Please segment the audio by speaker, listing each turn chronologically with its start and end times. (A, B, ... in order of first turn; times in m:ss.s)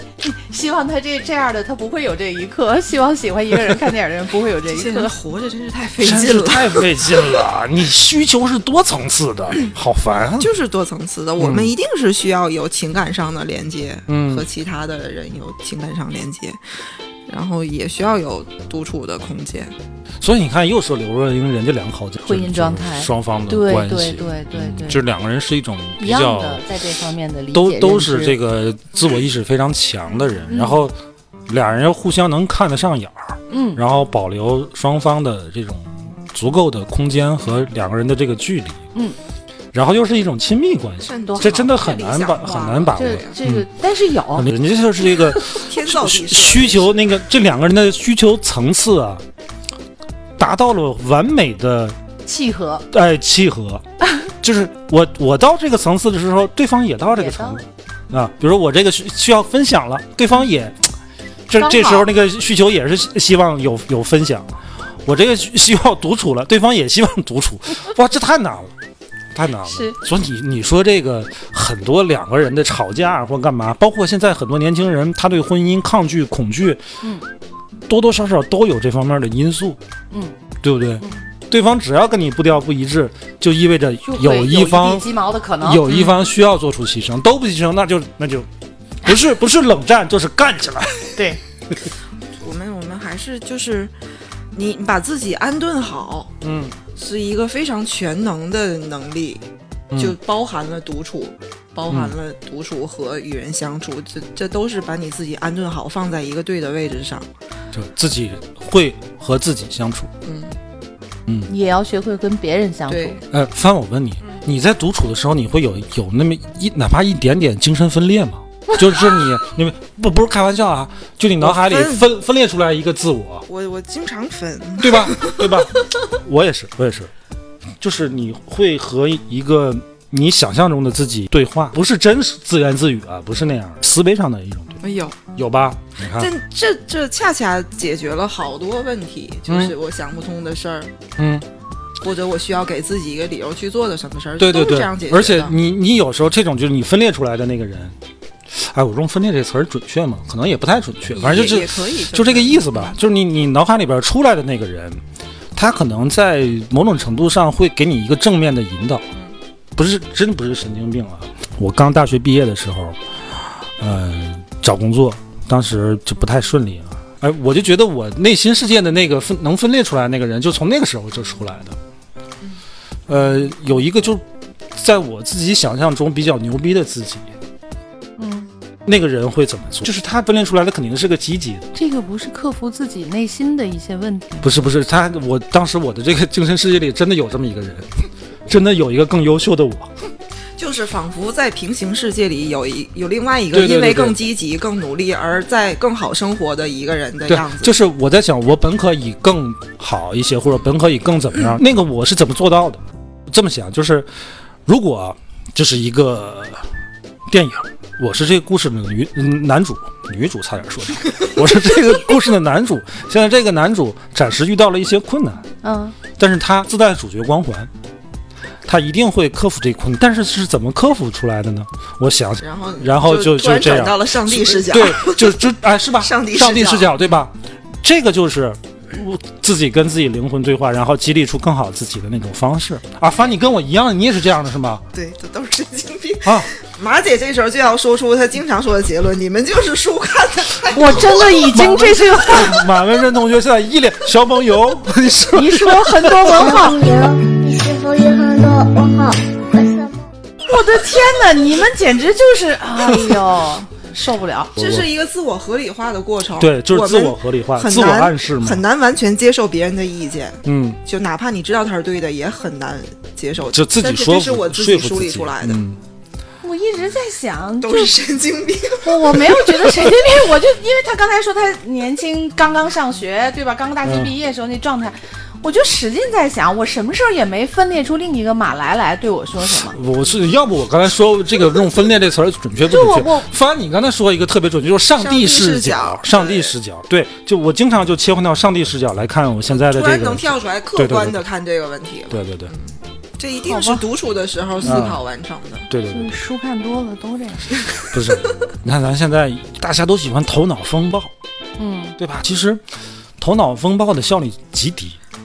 0:00.2-0:05.1 A
0:04.6-0:06.9 B
0:06.0-0:10.5 C
0:10.4-0:19.7 B
0:11.4-0:11.7 C
0:14.1-0:14.5 C
0:20.2-0:26.6 C
0:22.2-0:25.0 A
0:26.0-0:28.4 A
0:27.5-0:31.0 C
0:30.5-0:30.8 A
0:31.5-0:38.8 C
0:33.5-0:33.8 A
0:39.7-0:43.6 C
0:41.0-0:43.4 B
0:41.3-0:41.7 A
0:42.9-0:44.5 A
0:44.3-0:49.2 C
0:45.5-0:47.1 B
0:50.4-0:52.0 C
0:52.2-0:52.8 A
0:52.9-1:00.9 C
0:57.2-0:57.6 A
1:01.5-1:04.5 C
1:01.6-1:02.1 A
1:05.0-1:08.7 C
1:09.3-1:16.8 C
1:09.6-1:10.0 A
1:17.9-1:19.8 C
1:20.6-1:25.0 C
1:24.0-1:25.9 A
1:25.6-1:28.5 C
1:25.9-1:26.2 B
1:29.0-1:31.2 C
1:32.4-1:33.9 B
1:34.5-1:36.3 B
1:36.4-1:36.7 C
1:36.9-1:47.3 B
1:39.9-1:40.2 C
1:47.7-1:50.1 C
1:50.2-1:50.5 B
1:51.4-1:53.2 A
1:52.9-1:53.2 B
1:53.3-2:03.4 C
2:01.4-2:02.1 B
2:03.5-2:05.6 B
2:04.8-2:07.1 C
2:07.8-2:14.8 C
2:14.8-2:15.2 B
2:15.3-2:16.3 C
2:16.1-2:21.0 B
2:21.2-2:21.4 C
2:22.0-2:25.5 B
2:24.4-2:28.0 C
2:28.5-2:35.0 C
2:31.1-2:32.8 B
2:35.5-2:39.1 C
2:39.8-2:51.8 C
2:53.1-2:57.3 C
2:58.2-2:58.5 A
2:58.8-3:01.7 C
3:01.7-3:04.6 A
3:04.4-3:09.9 C
3:10.6-3:17.7 B
3:13.5-3:14.2 C
3:17.3-3:24.1 C
3:24.6-3:26.6 C
3:27.3-3:35.4 C
3:35.6-3:36.0 A
3:36.2-3:37.7 C
3:38.6-3:54.8 C
3:42.4-3:45.5 B
3:46.0-3:47.0 B
3:54.9-4:01.4 B
3:56.2-3:56.5 C
4:00.7-4:02.6 A
4:01.1-4:06.4 C
4:05.3-4:06.8 A
4:06.3-4:10.1 D
4:10.4-4:14.5 A
4:14.6-4:14.9 C
4:14.6-4:25.6 B
4:16.4-4:18.6 C
4:20.4-4:20.8 C
4:23.5-4:25.8 C
4:26.4-4:28.0 A
4:27.6-4:29.9 B
4:28.8-4:39.8 A
4:33.8-4:34.1 C
4:39.6-4:51.2 C
4:42.7-4:43.3 A
4:45.0-4:46.5 B
4:49.5-4:55.7 B
4:52.1-4:52.5 C
4:53.4-4:53.8 A
4:54.6-4:55.0 C
4:55.7-4:56.2 C
4:55.9-4:57.6 A
4:57.8-5:01.1 C
5:01.6-5:02.0 A
5:02.0-5:02.6 C
5:03.2-5:05.0 C